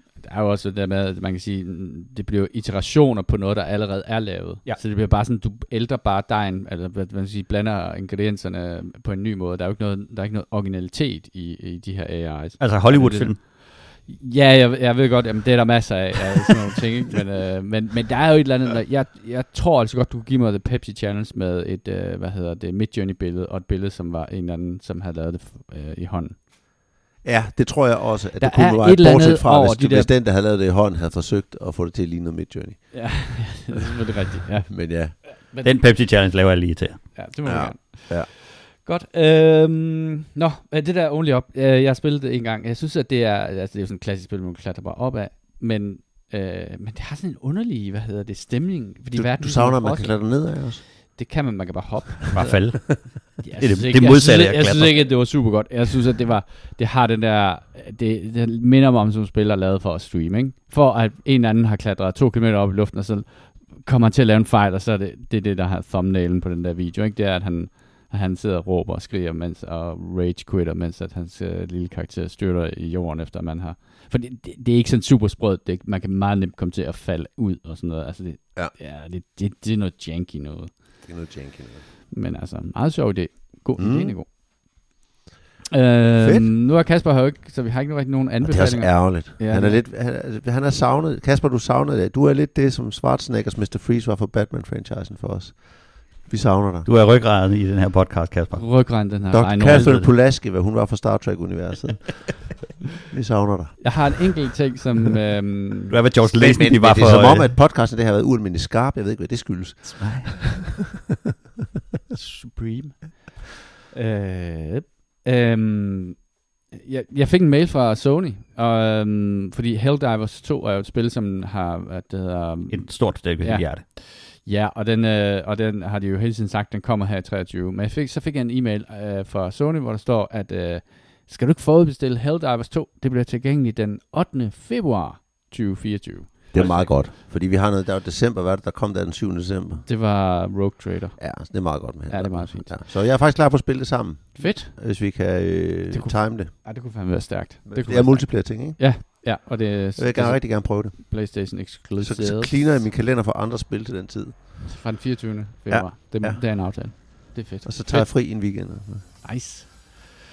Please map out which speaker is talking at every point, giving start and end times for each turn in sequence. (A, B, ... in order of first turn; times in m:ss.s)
0:00.2-0:26.4 A
0:12.6-0:13.4 B
0:27.2-0:33.6 C
0:28.4-0:30.1 A
0:32.9-0:35.9 A
0:34.7-0:35.2 C
0:35.6-0:37.2 B
0:37.1-1:21.1 A
0:37.4-0:38.3 C
0:49.1-0:50.8 C
0:52.3-0:55.2 B
1:21.0-1:21.9 C
1:22.1-1:24.9 A
1:23.8-1:24.2 C
1:25.7-1:29.9 A
1:26.2-1:26.5 C
1:28.4-1:36.9 C
1:36.8-1:38.7 B
1:38.5-1:40.1 A
1:39.3-1:44.3 C
1:39.6-1:40.1 B
1:43.8-1:46.0 A
1:45.9-1:47.6 B
1:46.3-1:50.6 C
1:50.0-1:50.3 B
1:52.1-2:17.1 A
2:02.7-2:03.8 B
2:16.5-2:19.9 C
2:19.8-2:22.8 A
2:21.2-2:27.0 C
2:24.4-2:25.2 A
2:25.9-2:32.9 A
2:27.6-2:29.4 C
2:30.0-2:34.8 C
2:34.6-2:40.2 A
2:35.7-2:39.2 C